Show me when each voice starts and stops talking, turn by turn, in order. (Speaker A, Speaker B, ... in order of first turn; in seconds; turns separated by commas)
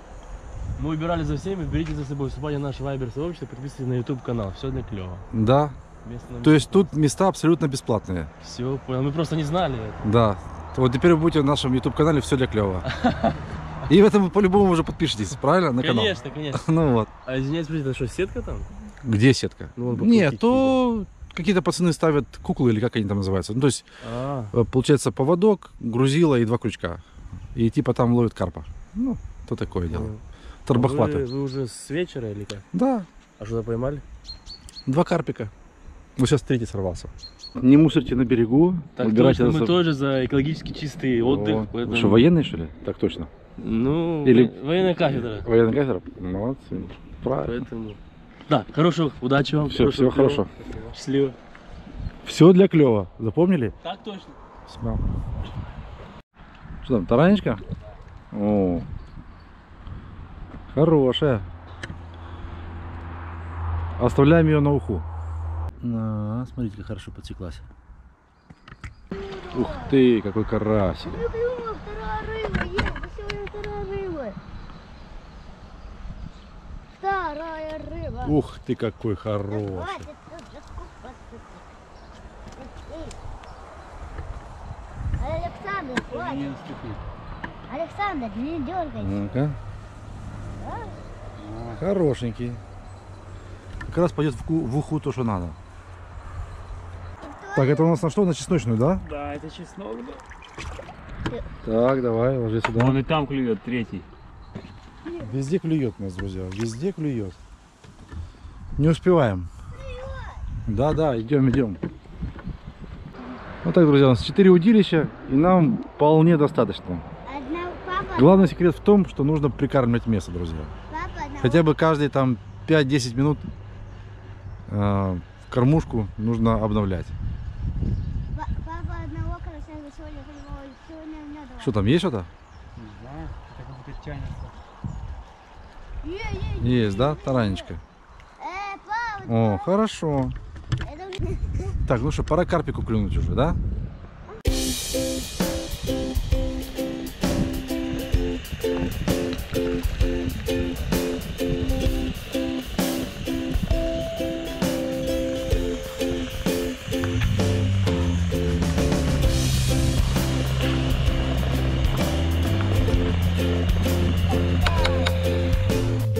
Speaker A: 0.8-5.2, Speaker B: 5.3-5.8, Speaker A: 6.0-6.9, Speaker B: 6.4-8.3, Speaker A: 8.4-10.0, Speaker B: 10.0-12.9, Speaker A: 12.9-13.3, Speaker B: 13.9-17.1, Speaker A: 15.8-16.7, Speaker A: 17.3-18.7, Speaker B: 19.0-23.9, Speaker A: 19.8-20.8, Speaker A: 24.0-24.5, Speaker B: 24.5-27.0, Speaker B: 27.6-30.1, Speaker A: 29.9-30.2, Speaker B: 30.7-31.2, Speaker A: 30.7-32.6, Speaker B: 32.7-33.1, Speaker A: 33.4-34.0, Speaker B: 34.9-35.5, Speaker B: 36.2-39.8, Speaker A: 39.0-42.3, Speaker B: 41.3-43.3, Speaker A: 43.6-45.5, Speaker B: 44.2-47.6, Speaker A: 47.4-51.4, Speaker B: 49.7-50.5, Speaker B: 52.2-53.7, Speaker A: 53.8-54.4, Speaker B: 54.7-55.0, Speaker B: 56.8-57.6, Speaker B: 58.3-58.9, Speaker B: 60.7-61.5, Speaker B: 64.0-65.1, Speaker B: 65.8-67.6, Speaker C: 69.1-70.0, Speaker B: 69.5-71.2, Speaker C: 71.0-74.4, Speaker C: 76.9-78.4, Speaker B: 78.2-80.1, Speaker C: 79.5-81.7, Speaker C: 82.6-83.2, Speaker C: 85.2-86.5, Speaker A: 86.2-87.0, Speaker C: 87.7-89.4, Speaker B: 89.0-89.6, Speaker C: 90.6-91.0, Speaker D: 91.4-91.8, Speaker B: 91.8-92.6, Speaker B: 93.9-95.6, Speaker C: 97.2-98.0, Speaker B: 97.6-99.0, Speaker D: 99.0-100.2, Speaker B: 101.6-103.0, Speaker D: 102.8-104.1, Speaker B: 105.2-107.4, Speaker B: 108.8-109.5, Speaker C: 109.7-110.5, Speaker B: 110.7-111.8, Speaker B: 113.6-117.0, Speaker C: 117.2-118.5, Speaker B: 118.2-120.7, Speaker C: 120.9-121.7, Speaker B: 121.4-123.5, Speaker B: 124.7-127.2, Speaker C: 128.3-131.8, Speaker B: 131.6-132.3, Speaker D: 132.8-134.6, Speaker C: 136.0-137.7, Speaker B: 136.6-137.8, Speaker C: 138.4-139.7, Speaker B: 139.3-140.4, Speaker C: 140.8-141.8, Speaker B: 141.8-143.6, Speaker C: 164.3-165.2